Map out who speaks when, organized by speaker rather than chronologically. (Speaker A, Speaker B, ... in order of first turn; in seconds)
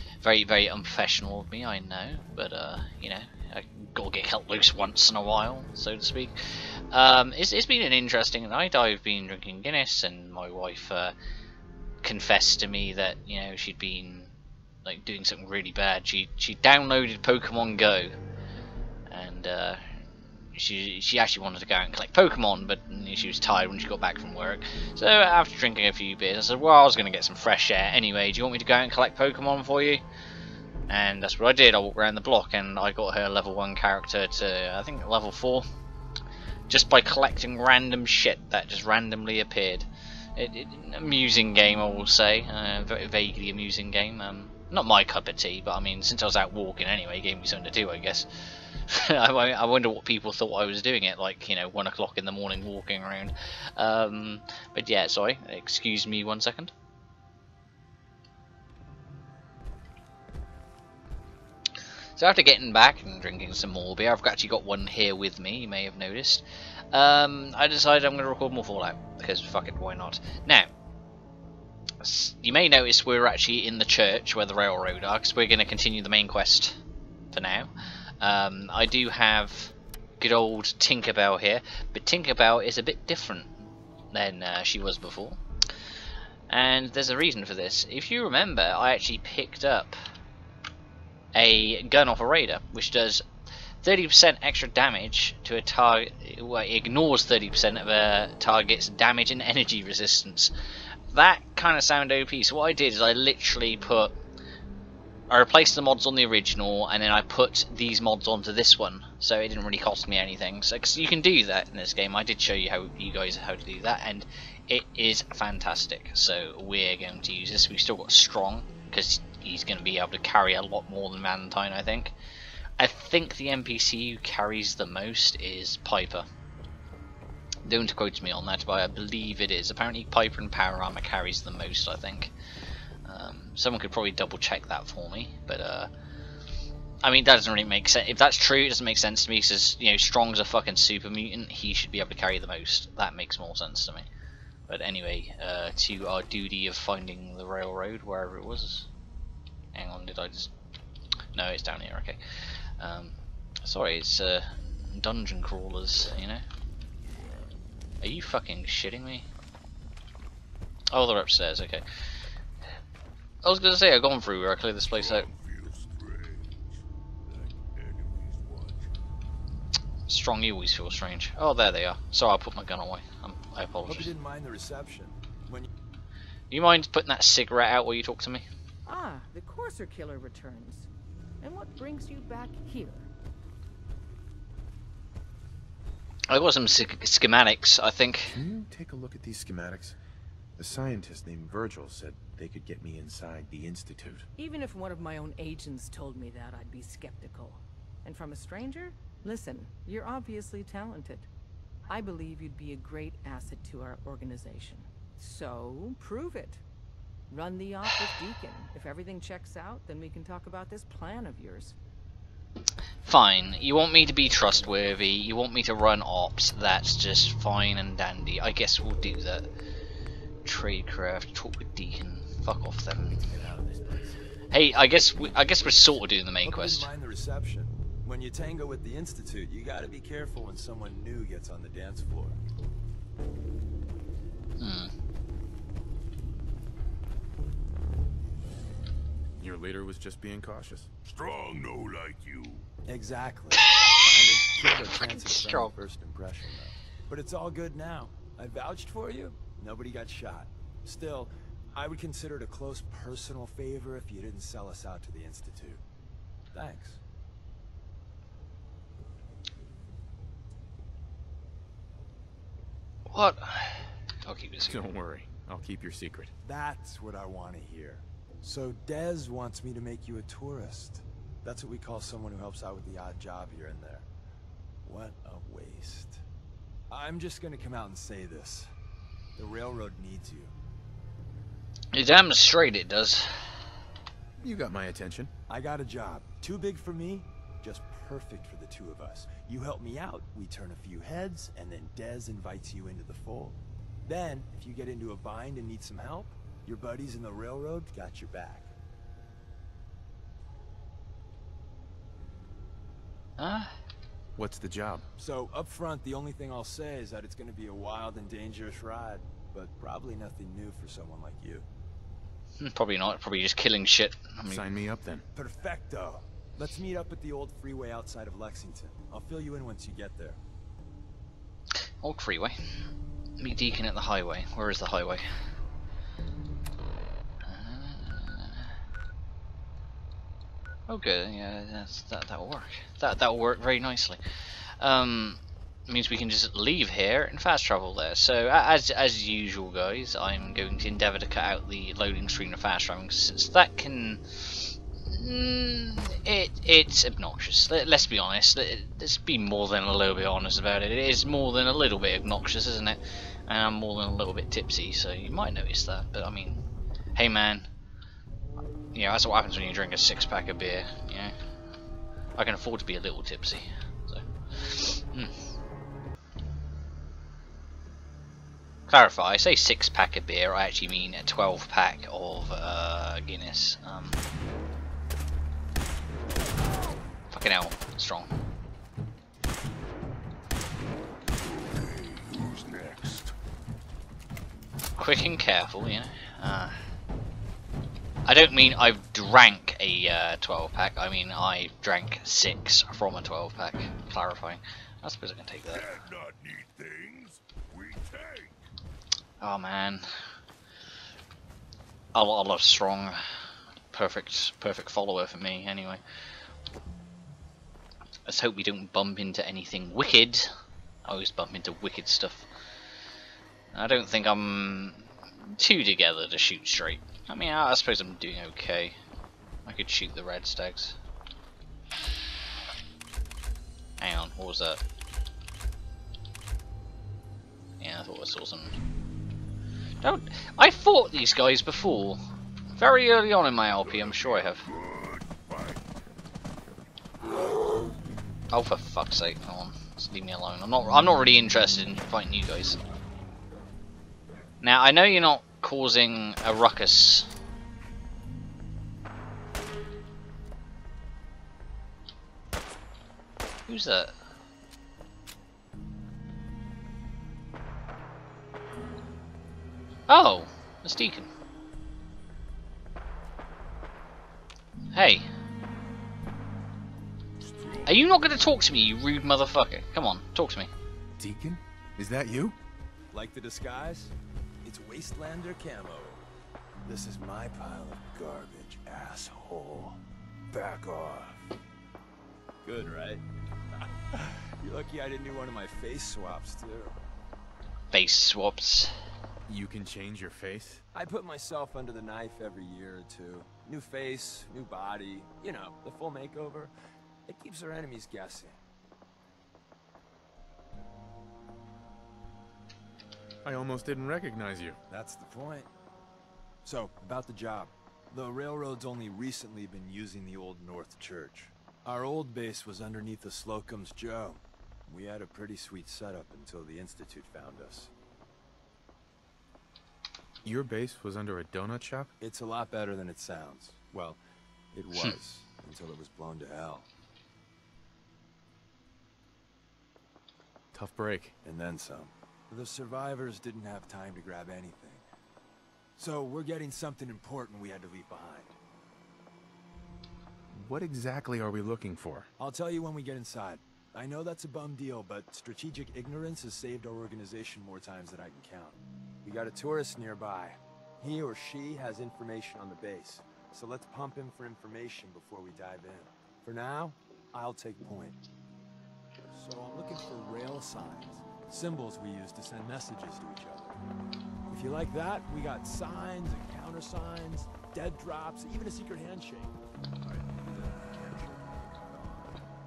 Speaker A: 0.2-6.4, 6.9-11.1, 12.0-14.3, 14.8-18.1, 19.1-19.9, 20.5-30.0, 30.9-35.7, 36.7-56.7, 62.2-70.7, 72.0-76.8, 77.3-83.5, 84.1-85.4, 86.5-90.0, 91.3-93.2, 93.8-100.5, 101.1-104.1, 105.3-122.1, 122.8-126.3, 127.7-132.3, 133.0-135.9, 137.0-144.1, 144.7-148.9, 149.7-150.5, 151.3-152.2, 152.8-156.4, 158.0-159.3, 160.9-161.8, 163.4-165.3, 170.1-174.1, 176.5-178.4, 186.3-188.4, 213.0-219.5, 220.4-223.2, 224.5-226.9, 234.6-234.9, 243.7-244.0, 244.8-245.7, 263.1-264.8, 281.9-283.5, 303.4-303.7, 312.6-314.6, 322.0-322.6, 323.4-325.2, 327.4-328.7, 330.9-334.2, 334.8-356.6, 357.1-357.7, 358.9-361.3, 362.4-365.3, 368.9-374.2, 377.3-378.3, 385.0-386.7, 388.2-395.9, 399.4-400.0, 402.1-403.2, 403.9-406.0, 408.2-410.5, 411.0-412.5, 413.7-419.0, 419.6-420.9, 424.0-424.8, 427.8-428.8, 430.0-432.2, 432.8-434.6, 438.5-442.8, 444.6-447.3, 453.7-454.1, 460.1-461.3, 464.9-465.3, 467.9-470.7, 487.9-488.9
Speaker B: 164.9-168.9, 241.0-242.7, 381.3-383.3, 395.7-398.6, 433.8-436.0, 467.4-468.0
Speaker C: 173.8-175.7, 223.0-224.2, 225.5-232.4, 242.8-255.8, 256.5-257.0, 266.4-274.1, 274.8-276.2, 276.9-278.7, 279.4-280.5, 285.5-298.7, 305.2-311.7, 315.3-320.4, 473.1-476.3, 476.8-481.5, 482.6-483.2, 483.8-487.0, 490.9-496.7, 497.3-498.6, 504.9-505.7, 506.6-517.9, 522.2-524.2, 524.7-526.9, 531.4-535.0, 536.0-538.6, 542.4-558.2, 559.3-563.8, 564.5-572.3
Speaker D: 178.8-180.9, 181.4-183.1, 194.4-201.3, 201.9-206.6, 207.3-211.8
Speaker E: 188.3-190.0, 190.6-194.2, 239.4-240.9, 264.7-266.3, 284.4-285.3, 304.4-305.1, 314.5-315.2, 471.2-472.6, 489.5-490.8, 503.4-504.8, 520.4-522.1, 530.7-531.3, 540.5-542.3